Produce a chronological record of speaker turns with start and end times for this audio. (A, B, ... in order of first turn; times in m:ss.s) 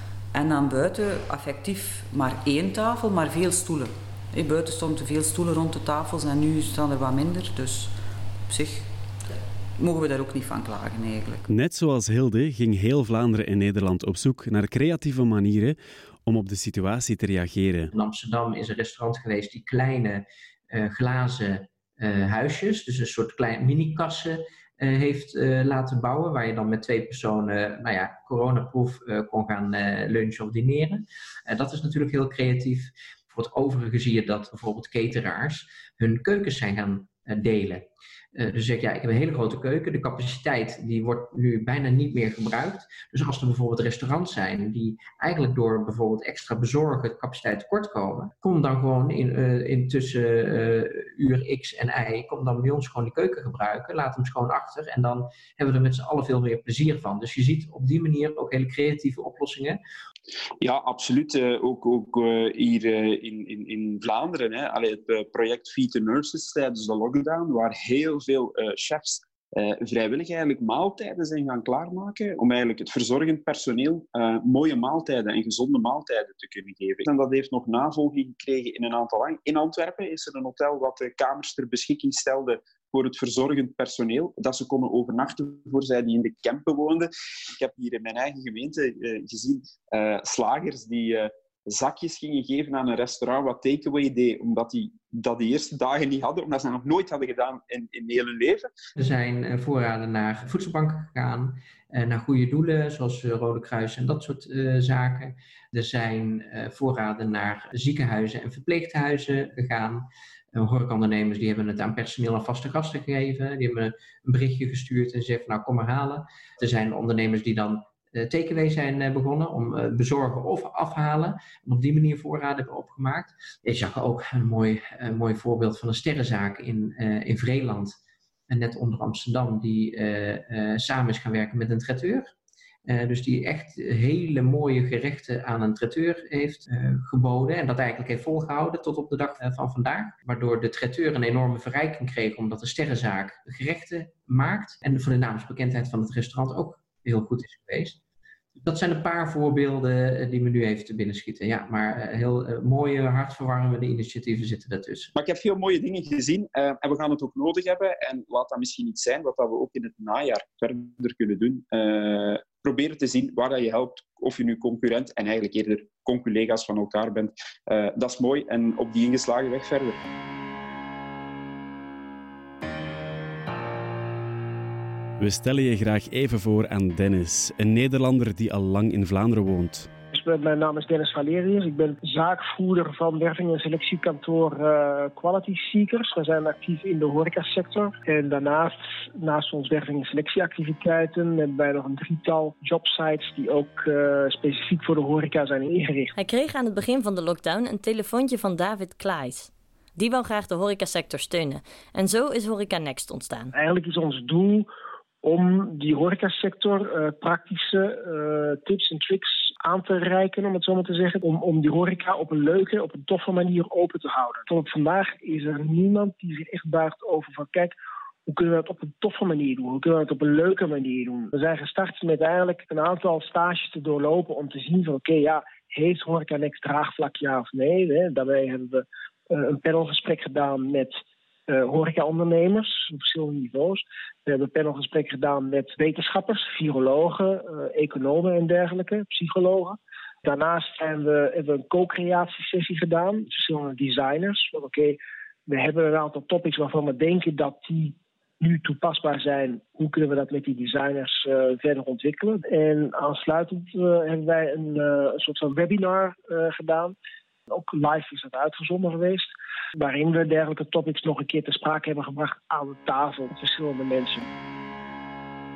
0:00.3-0:08.9 A
0:09.8-0:11.5 A
0:11.5-0:17.9 B
0:17.9-0:59.8 C
1:00.6-1:38.7 D
1:39.0-2:07.9 C
2:08.5-2:12.3 C
2:12.8-2:28.0 C
2:28.6-2:35.1 C
2:35.1-2:50.0 D
2:55.2-2:59.9 B
3:00.1-3:16.1 E
3:16.2-3:23.5 F
3:23.5-3:24.7 E
3:25.2-4:17.0 E
4:17.5-4:24.3 E